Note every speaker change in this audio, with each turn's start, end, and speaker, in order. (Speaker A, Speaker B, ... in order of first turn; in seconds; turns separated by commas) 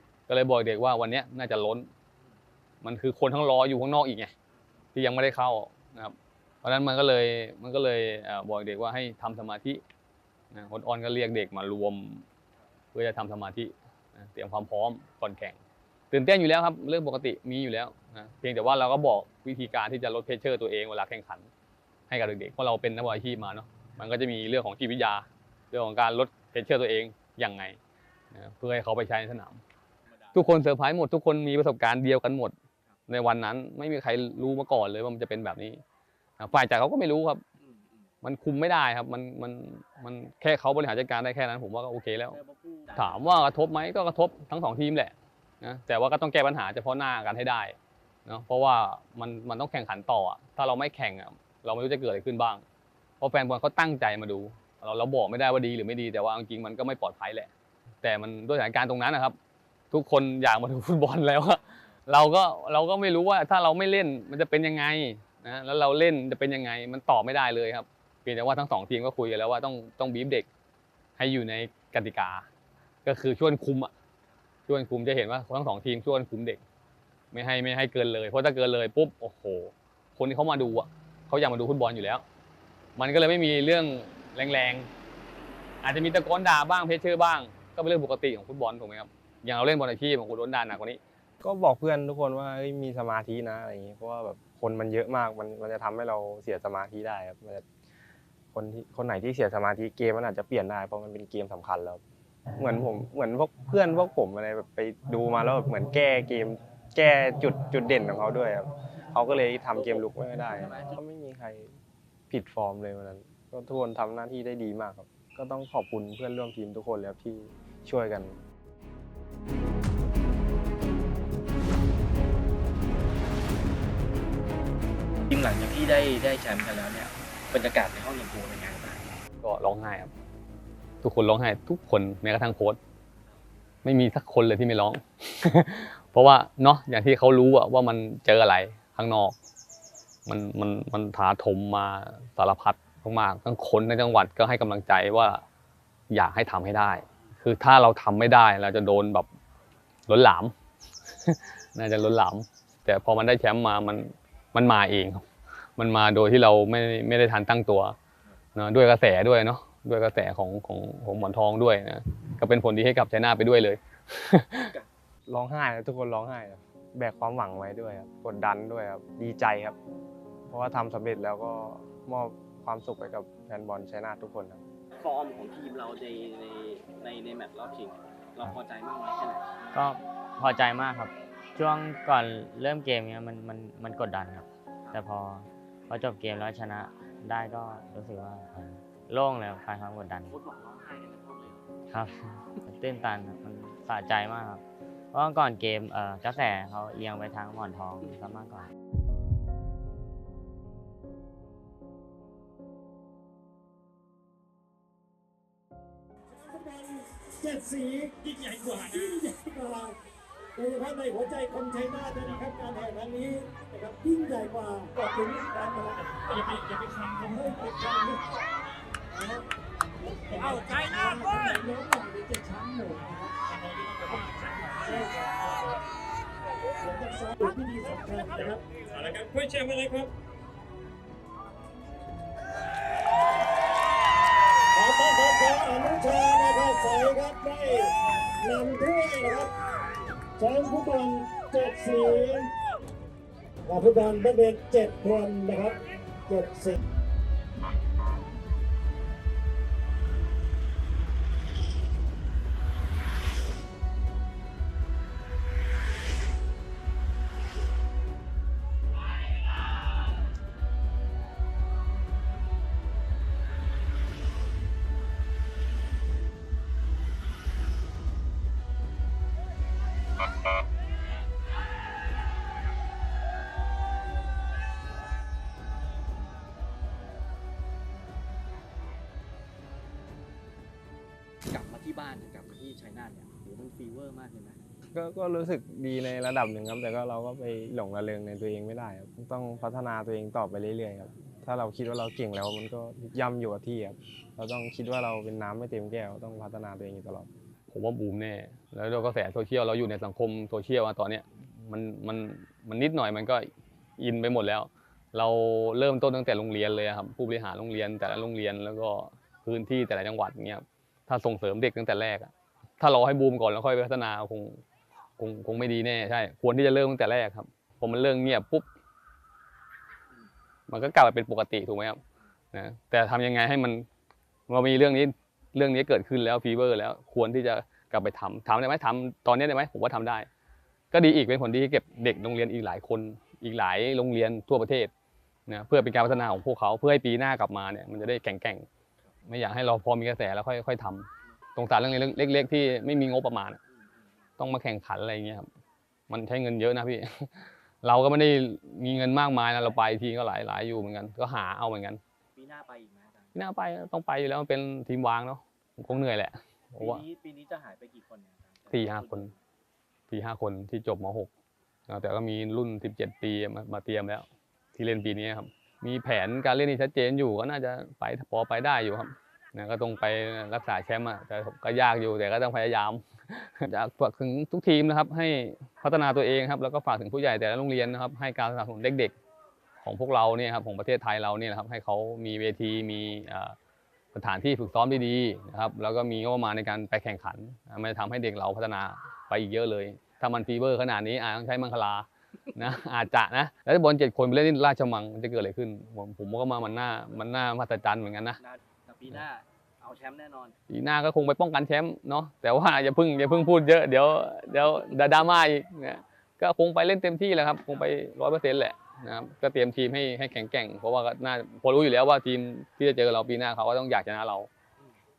Speaker A: 0.3-1.9, Speaker A: 2.8-4.3, Speaker A: 5.0-9.8, Speaker A: 10.5-12.2, Speaker A: 12.9-15.6, Speaker A: 16.1-21.5, Speaker A: 22.1-27.8, Speaker A: 28.3-29.6, Speaker B: 30.1-30.5, Speaker A: 30.3-32.5, Speaker A: 33.1-35.8, Speaker A: 36.4-37.4, Speaker B: 37.6-38.1, Speaker A: 38.2-42.4, Speaker B: 42.3-43.3, Speaker A: 43.0-52.6, Speaker A: 53.2-57.5, Speaker A: 58.0-59.4, Speaker A: 59.9-70.5, Speaker A: 71.2-72.5, Speaker A: 73.1-73.9, Speaker A: 74.7-76.6, Speaker A: 77.3-82.2, Speaker A: 83.0-84.9, Speaker A: 85.8-91.0, Speaker C: 91.4-97.6, Speaker C: 98.5-102.0, Speaker C: 102.6-111.8, Speaker B: 109.8-111.0, Speaker C: 112.3-118.4, Speaker B: 125.2-129.1, Speaker A: 129.4-130.1, Speaker A: 131.0-132.8, Speaker A: 133.8-139.3, Speaker A: 140.3-145.4, Speaker A: 146.1-149.3, Speaker A: 150.1-150.5, Speaker A: 151.2-155.2, Speaker A: 155.8-157.9, Speaker A: 158.6-164.7, Speaker C: 165.3-169.8, Speaker C: 170.5-174.6, Speaker B: 175.0-179.5, Speaker D: 179.7-190.3, Speaker B: 190.3-191.7, Speaker D: 191.9-198.7, Speaker E: 206.3-210.0, Speaker E: 210.6-218.3, Speaker E: 219.1-219.4, Speaker E: 220.2-225.5, Speaker E: 226.8-230.1, Speaker E: 234.7-239.6, Speaker E: 240.4-242.5, Speaker E: 243.7-246.8, Speaker B: 281.5-284.6, Speaker C: 284.9-297.3, Speaker A: 297.7-314.6, Speaker A: 315.2-318.7, Speaker A: 320.7-322.0, Speaker A: 322.5-323.9, Speaker A: 324.5-330.3, Speaker A: 330.9-334.9, Speaker A: 335.5-338.7, Speaker A: 339.2-343.6, Speaker B: 343.7-344.3, Speaker A: 344.4-345.5, Speaker A: 346.1-352.0, Speaker B: 352.4-353.3, Speaker A: 353.3-357.0, Speaker B: 356.8-359.4, Speaker A: 358.7-359.3, Speaker A: 360.1-361.3, Speaker A: 361.9-379.1, Speaker A: 379.8-383.6, Speaker A: 384.1-398.4, Speaker B: 398.4-400.6, Speaker A: 400.7-414.5